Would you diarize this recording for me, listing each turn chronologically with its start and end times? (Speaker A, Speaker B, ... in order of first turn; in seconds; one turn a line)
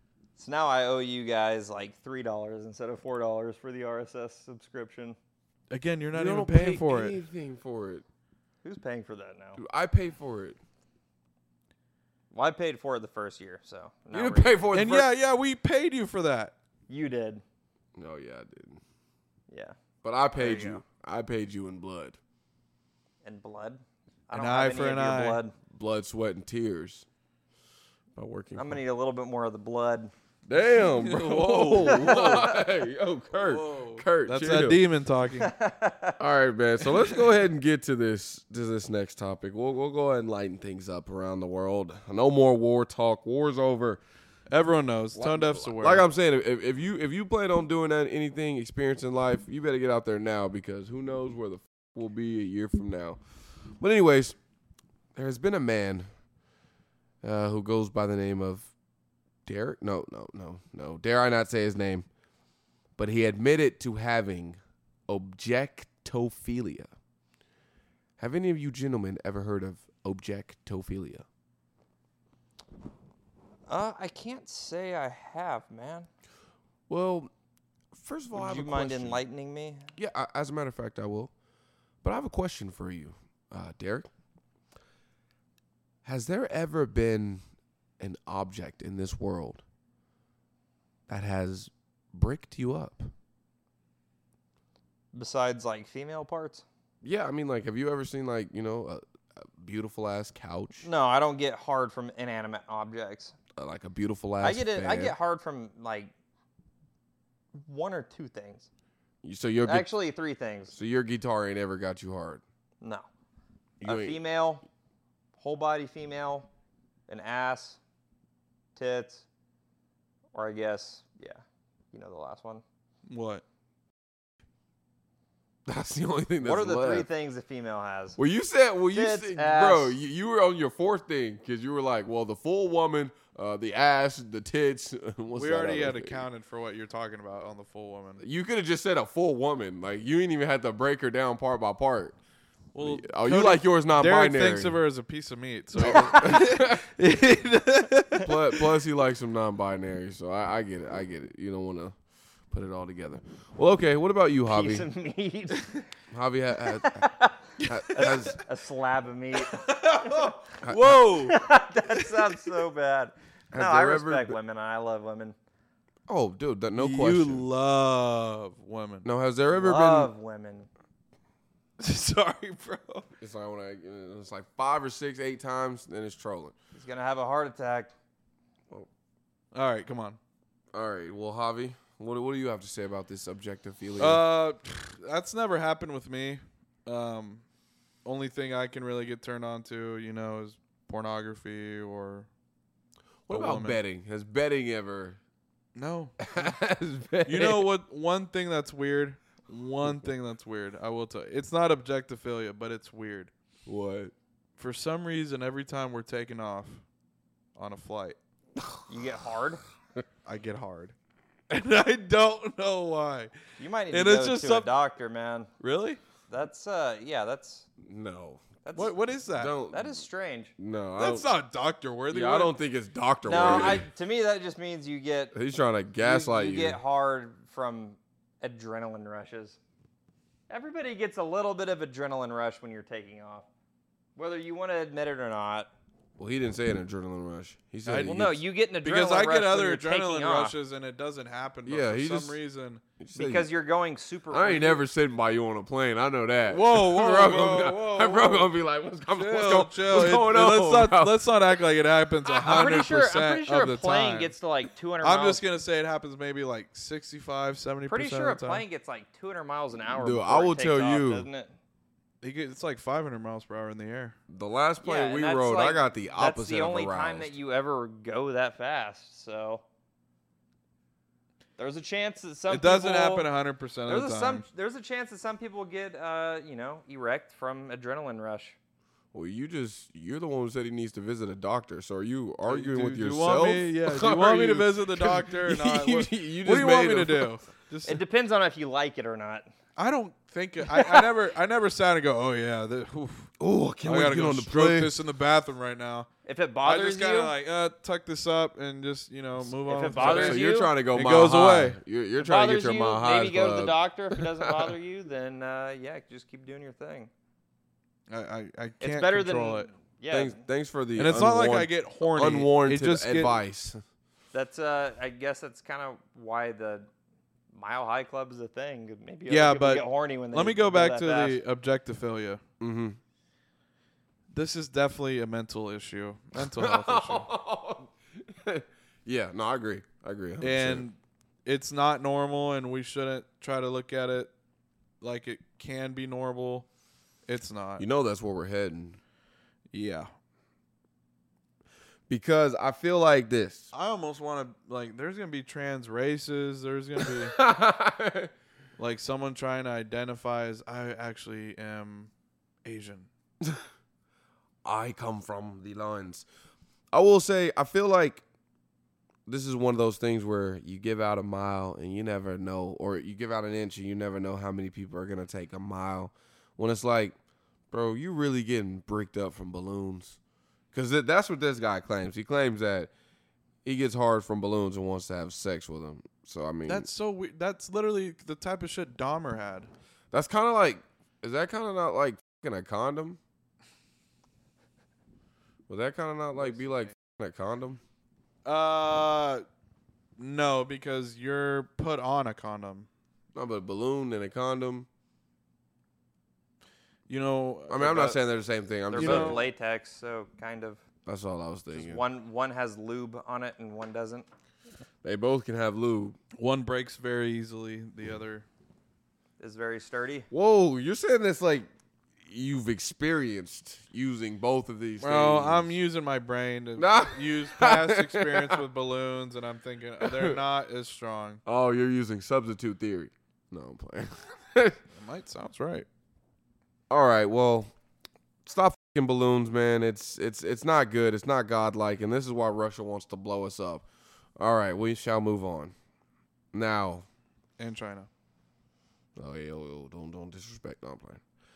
Speaker A: 0.4-5.2
Speaker B: 5.7-7.2
Speaker C: 6.1-8.0
Speaker A: 8.6-9.6
Speaker C: 9.6-10.6
Speaker A: 12.3-14.6
Speaker C: 14.1-15.1
Speaker B: 14.7-16.5
Speaker A: 16.9-17.4
Speaker C: 18.0-18.8
Speaker A: 19.5-19.8
Speaker C: 20.0-22.2
Speaker A: 20.3-20.8
Speaker A: 23.2-25.5
Speaker B: 24.3-25.4
Speaker C: 25.7-27.1
Speaker C: 28.1-28.8
Speaker A: 28.6-30.1
Speaker C: 30.5-34.8
Speaker B: 30.7-32.5
Speaker B: 33.3-35.5
Speaker A: 35.4-36.2
Speaker C: 36.2-44.0
Speaker B: 44.5-46.0
Speaker C: 45.1-53.2
Speaker C: 53.8-54.4
Speaker C: 55.1-56.1
Speaker C: 57.2-58.7
Speaker C: 59.4-62.1
Speaker C: 63.0-66.9
Speaker C: 68.2-71.2
Speaker A: 73.7-76.1
Speaker C: 76.9-77.3
Speaker C: 77.9-79.2
Speaker A: 78.3-79.9
Speaker C: 80.0-81.3
Speaker C: 82.0-84.1
Speaker C: 86.0-87.4
Speaker C: 88.0-89.6
Speaker C: 91.1-93.1
Speaker A: 95.1-96.6
Speaker C: 97.0-100.9
Speaker A: 100.8-103.3
Speaker C: 103.6-105.1
Speaker A: 104.4-106.1
Speaker A: 107.5-108.7
Speaker C: 109.2-109.9
Speaker A: 109.6-110.7
Speaker C: 110.7-112.4
Speaker A: 112.8-113.1
Speaker C: 113.8-114.2
Speaker A: 113.8-114.6
Speaker A: 115.4-116.5
Speaker A: 117.1-117.8
Speaker A: 118.8-119.2
Speaker A: 120.3-122.6
Speaker B: 123.1-123.4
Speaker C: 125.7-127.1
Speaker A: 126.4-128.2
Speaker C: 128.2-136.2
Speaker A: 128.9-130.0
Speaker B: 135.3-138.2
Speaker C: 138.2-142.2
Speaker B: 142.7-148.6
Speaker C: 142.8-144.8
Speaker C: 145.8-146.8
Speaker A: 145.8-146.5
Speaker C: 148.2-151.9
Speaker C: 152.5-154.9
Speaker A: 154.5-155.8
Speaker C: 156.1-157.0
Speaker A: 156.6-160.4
Speaker C: 157.6-158.4
Speaker B: 159.5-161.4
Speaker C: 160.6-161.0
Speaker A: 161.2-165.3
Speaker C: 163.5-164.4
Speaker C: 166.1-167.5
Speaker B: 166.8-169.1
Speaker C: 169.0-170.1
Speaker A: 169.5-170.7
Speaker B: 171.8-173.1
Speaker C: 173.2-176.5
Speaker A: 176.7-177.9
Speaker B: 179.5-180.2
Speaker C: 180.7-184.2
Speaker B: 184.0-187.4
Speaker B: 188.0-192.3
Speaker C: 193.3-195.2
Speaker B: 193.3-193.8
Speaker B: 195.7-196.6
Speaker C: 196.2-197.7
Speaker B: 197.2-203.3
Speaker C: 203.7-204.1
Speaker B: 204.6-206.8
Speaker B: 207.6-208.2
Speaker A: 208.9-209.6
Speaker B: 210.2-210.9
Speaker B: 211.5-213.3
Speaker A: 213.6-215.5
Speaker B: 213.9-214.7
Speaker B: 215.6-216.0
Speaker A: 216.3-217.7
Speaker C: 217.8-218.4
Speaker A: 218.6-218.9
Speaker B: 218.7-219.5
Speaker C: 219.3-220.0
Speaker A: 219.7-220.5
Speaker C: 220.6-221.3
Speaker B: 221.0-222.6
Speaker C: 222.1-223.8
Speaker A: 223.2-225.3
Speaker C: 225.3-226.8
Speaker A: 226.0-229.6
Speaker A: 230.5-233.5
Speaker A: 234.2-235.7
Speaker C: 236.2-238.4
Speaker B: 237.8-238.2
Speaker A: 238.0-240.6
Speaker B: 238.8-242.8
Speaker C: 241.7-242.4
Speaker C: 243.0-243.5
Speaker A: 243.2-244.8
Speaker C: 244.3-251.1
Speaker B: 246.5-248.5
Speaker B: 249.1-254.3
Speaker A: 252.2-255.4
Speaker B: 255.0-258.6
Speaker A: 257.9-261.5
Speaker C: 259.9-261.3
Speaker B: 262.2-264.2
Speaker C: 264.3-267.3
Speaker A: 264.8-269.6
Speaker A: 271.6-273.3
Speaker B: 272.5-274.4
Speaker A: 273.9-278.6
Speaker C: 279.1-287.4
Speaker B: 282.4-288.0
Speaker A: 287.9-289.5
Speaker B: 289.8-293.3
Speaker A: 290.6-291.1
Speaker C: 293.4-295.0
Speaker B: 293.8-296.1
Speaker A: 296.2-297.3
Speaker B: 296.6-301.8
Speaker A: 299.6-300.7
Speaker C: 299.9-304.7
Speaker A: 302.2-307.1
Speaker B: 308.1-309.7
Speaker A: 308.8-310.4
Speaker C: 310.1-313.8
Speaker B: 310.9-313.4
Speaker A: 314.3-316.9
Speaker A: 317.5-321.4
Speaker B: 319.3-322.4
Speaker C: 322.6-323.0
Speaker B: 324.3-327.3
Speaker C: 326.4-330.9
Speaker B: 330.4-334.3
Speaker B: 335.0-336.6
Speaker B: 337.3-337.8
Speaker C: 337.8-339.0
Speaker B: 339.7-340.1
Speaker C: 342.1-343.7
Speaker B: 343.7-347.4
Speaker C: 347.0-348.3
Speaker B: 348.8-352.1
Speaker B: 352.6-353.1
Speaker C: 354.6-356.2
Speaker C: 356.9-358.2
Speaker C: 359.3-367.1
Speaker C: 367.7-370.2
Speaker C: 370.7-372.9
Speaker C: 373.6-376.9
Speaker B: 376.7-379.7
Speaker C: 380.1-383.2
Speaker C: 385.7-387.8
Speaker B: 386.4-386.9
Speaker B: 388.4-389.4
Speaker B: 390.2-392.9
Speaker C: 393.3-394.9
Speaker B: 397.1-398.2
Speaker C: 397.7-399.4
Speaker A: 398.9-400.8
Speaker B: 398.9-399.5
Speaker C: 401.1-402.0
Speaker A: 401.7-404.2
Speaker C: 405.0-406.2
Speaker B: 406.4-408.4
Speaker A: 409.4-410.3
Speaker C: 410.3-411.7
Speaker C: 412.2-415.7
Speaker B: 415.0-421.4
Speaker C: 416.8-418.6
Speaker C: 420.0-420.4
Speaker C: 421.4-424.8
Speaker B: 424.9-425.9
Speaker C: 426.9-427.7
Speaker C: 428.4-433.8
Speaker C: 434.4-435.7
Speaker C: 436.5-437.1
Speaker B: 437.6-438.1
Speaker C: 439.2-441.2